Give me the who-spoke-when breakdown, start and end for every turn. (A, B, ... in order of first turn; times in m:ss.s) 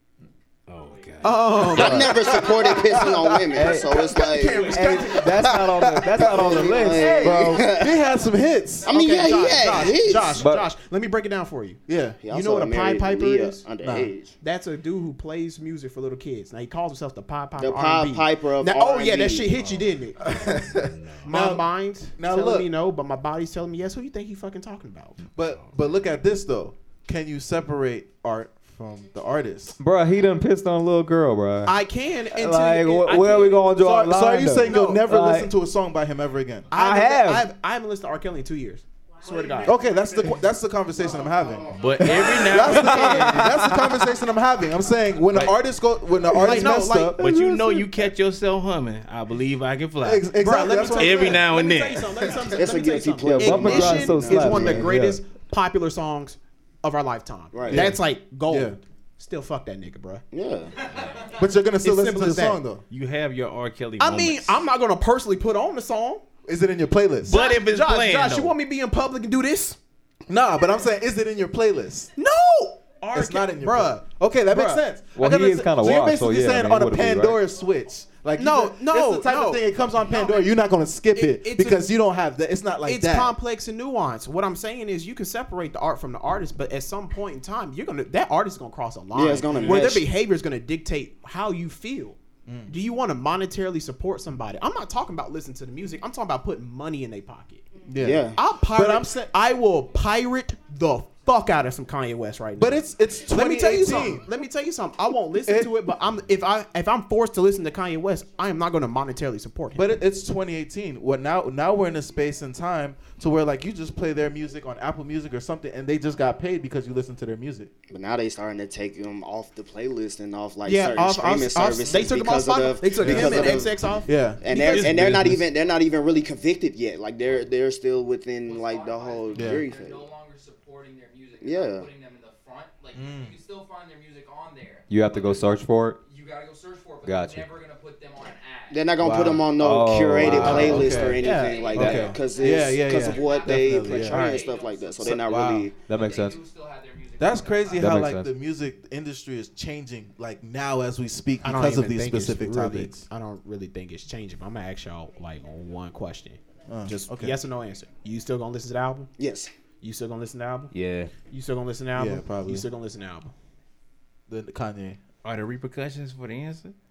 0:00.7-0:01.7 A
0:01.2-0:02.4 B
0:01.7-0:05.2 C
0:01.8-0:08.9 D
0:03.5-0:04.0 E
0:04.3-0:05.3 B
0:04.7-0:07.7 E
0:06.2-0:08.0 C
0:08.8-0:10.4 C
0:08.9-0:13.7 B
0:10.4-0:10.7 E
0:11.9-0:12.2 D
0:12.2-0:14.4 C
0:13.8-0:14.1 D
0:14.4-0:20.5 B
0:17.6-0:19.6 C
0:19.5-0:20.0 A
0:20.2-0:22.7 D
0:20.7-0:21.3 A
0:21.2-0:25.2 B
0:25.3-0:29.8 D
0:25.4-0:25.7 A
0:29.8-0:31.8 E
0:31.6-0:33.7 B
0:32.3-0:35.5 E
0:33.7-0:36.7 D
0:34.5-0:35.1 B
0:36.7-0:39.8 B
0:36.7-0:37.5 E
0:39.6-0:47.3 D
0:41.7-0:43.5 A
0:42.8-0:43.3 B
0:43.1-0:43.9 E
0:45.3-0:45.6 A
0:46.3-0:47.5 B
0:47.2-0:50.4 A
0:50.0-0:51.4 D
0:50.4-1:00.2 B
0:50.9-0:52.2 A
0:52.5-0:54.9 C
0:53.2-0:55.2 E
0:57.5-0:58.0 C
0:57.7-0:58.8 D
1:00.3-1:00.9 C
1:01.0-1:01.2 A
1:01.3-1:02.8 D
1:01.8-1:02.6 B
1:02.9-1:04.6 A
1:04.0-1:06.2 B
1:06.4-1:07.4 D
1:07.3-1:09.8 B
1:07.3-1:08.6 A
1:10.3-1:12.1 D
1:12.2-1:14.9 B
1:13.1-1:23.3 D
1:15.1-1:17.4 E
1:18.4-1:19.6 B
1:21.1-1:21.9 B
1:22.8-1:32.2 B
1:29.1-1:30.1 C
1:29.5-1:29.8 D
1:32.4-1:32.7 D
1:32.7-1:37.7 B
1:37.8-1:39.3 D
1:38.0-1:38.4 C
1:38.3-1:49.9 B
1:42.6-1:44.3 D
1:45.4-1:45.8 D
1:49.7-1:57.7 D
1:57.9-2:03.8 C
2:00.6-2:05.4 B
2:03.0-2:05.4 D
2:04.4-2:10.1 C
2:08.4-2:18.9 F
2:09.3-2:09.6 D
2:11.4-2:11.9 C
2:12.9-2:13.4 D
2:14.9-2:16.0 E
2:17.0-2:17.5 E
2:18.7-2:25.8 C
2:19.0-2:19.5 D
2:19.6-2:21.2 E
2:20.2-2:24.4 D
2:20.5-2:25.2 F
2:21.1-2:21.6 B
2:25.0-2:25.7 D
2:25.8-2:26.4 E
2:25.9-2:28.1 F
2:27.2-2:33.0 D
2:27.8-2:28.3 E
2:31.4-2:39.1 B
2:36.7-2:37.4 D
2:39.2-2:39.5 C
2:39.8-2:43.3 B
2:40.7-2:41.1 E
2:41.9-2:42.7 D
2:44.3-2:45.0 D
2:45.2-2:46.7 A